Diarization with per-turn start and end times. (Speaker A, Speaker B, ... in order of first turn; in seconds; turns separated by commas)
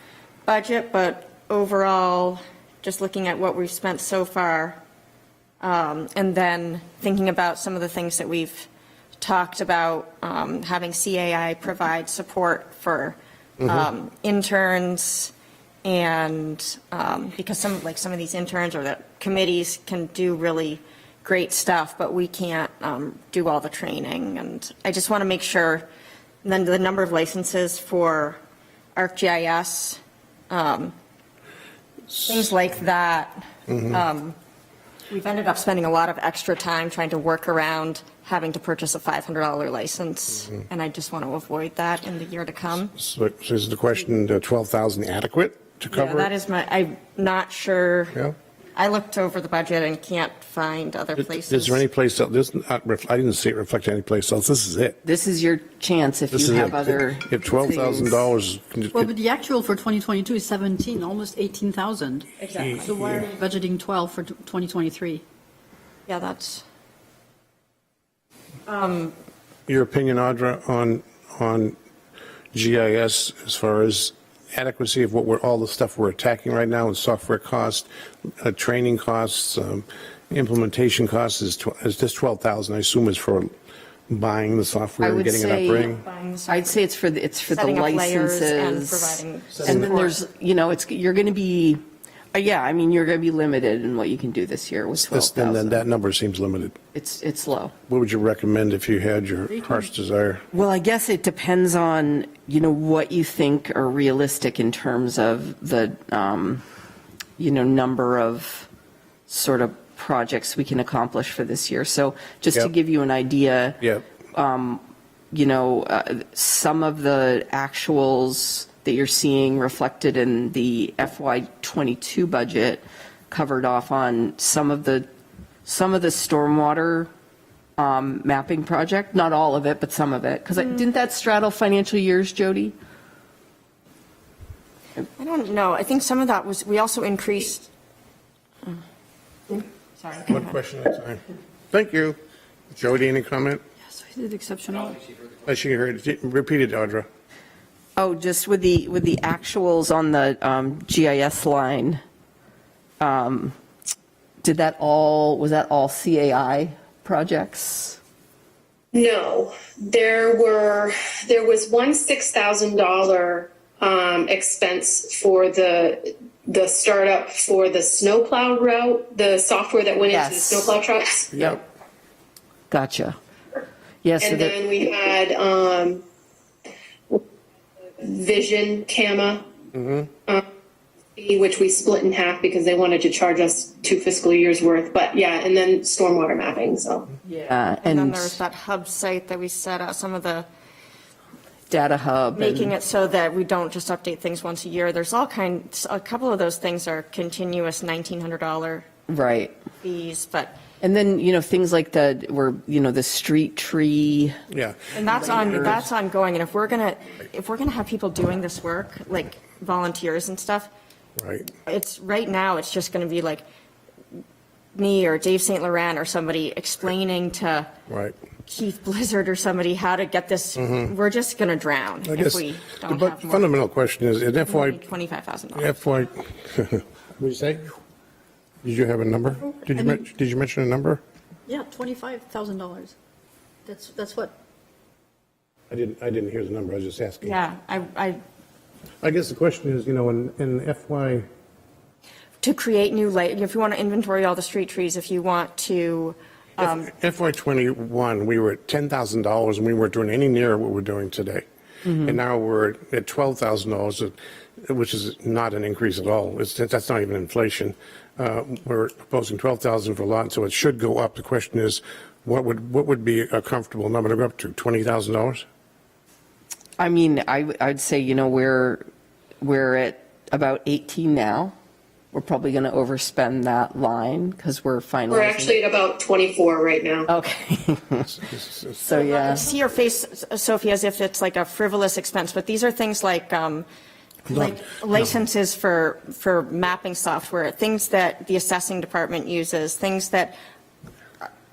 Speaker A: 0.5-4.8, Speaker A: 5.6-8.7, Speaker A: 9.2-15.3, Speaker B: 13.6-13.9, Speaker A: 15.8-25.9, Speaker A: 26.4-28.4, Speaker A: 29.0-30.9, Speaker A: 32.1-34.4, Speaker B: 33.7-34.0, Speaker A: 35.1-42.9, Speaker B: 43.0-46.3, Speaker A: 45.9-48.2, Speaker A: 48.8-51.8, Speaker B: 51.2-55.0, Speaker C: 55.0-58.2, Speaker B: 56.3-59.1, Speaker D: 58.9-62.3, Speaker A: 62.4-62.9, Speaker B: 62.6-63.3, Speaker D: 62.8-65.2, Speaker A: 66.1-66.6, Speaker A: 68.7-69.1, Speaker B: 69.7-71.8, Speaker B: 72.5-77.9, Speaker B: 78.4-83.5, Speaker B: 84.1-86.0, Speaker C: 85.0-85.9, Speaker A: 85.7-86.8, Speaker C: 86.5-91.8, Speaker A: 87.5-90.2, Speaker B: 89.5-89.9, Speaker C: 92.3-95.8, Speaker B: 95.0-96.8, Speaker C: 96.9-97.7, Speaker B: 97.9-100.4, Speaker C: 100.5-106.6, Speaker C: 107.4-108.7, Speaker C: 109.3-125.1, Speaker C: 125.7-127.1, Speaker C: 127.8-132.8, Speaker A: 135.2-137.7, Speaker A: 140.0-140.6, Speaker B: 140.3-142.2, Speaker B: 142.7-143.6, Speaker D: 143.9-145.1, Speaker B: 145.4-147.1, Speaker C: 148.0-152.0, Speaker C: 153.0-153.6, Speaker C: 154.4-158.0, Speaker E: 158.9-171.4, Speaker C: 170.1-170.7, Speaker C: 171.3-171.6, Speaker C: 172.7-173.2, Speaker C: 174.0-174.6, Speaker E: 174.2-176.0, Speaker E: 178.0-179.5, Speaker B: 179.7-180.1, Speaker E: 181.2-187.1, Speaker C: 187.2-188.4, Speaker A: 187.8-190.5, Speaker C: 191.7-192.7, Speaker A: 192.3-198.9, Speaker C: 199.1-199.6, Speaker A: 199.8-200.6, Speaker C: 200.8-204.4, Speaker B: 204.5-205.8, Speaker A: 204.9-210.7, Speaker C: 205.1-205.8, Speaker B: 211.2-211.5, Speaker A: 211.6-213.4, Speaker A: 214.8-217.7, Speaker B: 217.9-218.2, Speaker A: 218.5-223.5, Speaker B: 220.6-220.9, Speaker B: 222.1-224.8, Speaker A: 224.4-225.7, Speaker B: 225.6-227.7, Speaker B: 228.6-231.0, Speaker D: 229.8-230.1, Speaker D: 231.5-232.9, Speaker D: 233.7-234.3, Speaker B: 235.7-237.4, Speaker A: 237.2-238.2, Speaker B: 239.0-241.3, Speaker A: 242.4-246.9, Speaker B: 246.6-265.4, Speaker C: 251.9-252.2, Speaker C: 266.8-268.9, Speaker C: 269.4-271.6, Speaker C: 272.1-275.6, Speaker E: 275.1-277.1, Speaker C: 277.1-278.2, Speaker B: 278.2-278.8, Speaker C: 278.8-279.4, Speaker A: 278.9-283.7, Speaker B: 284.3-285.0, Speaker A: 284.3-290.4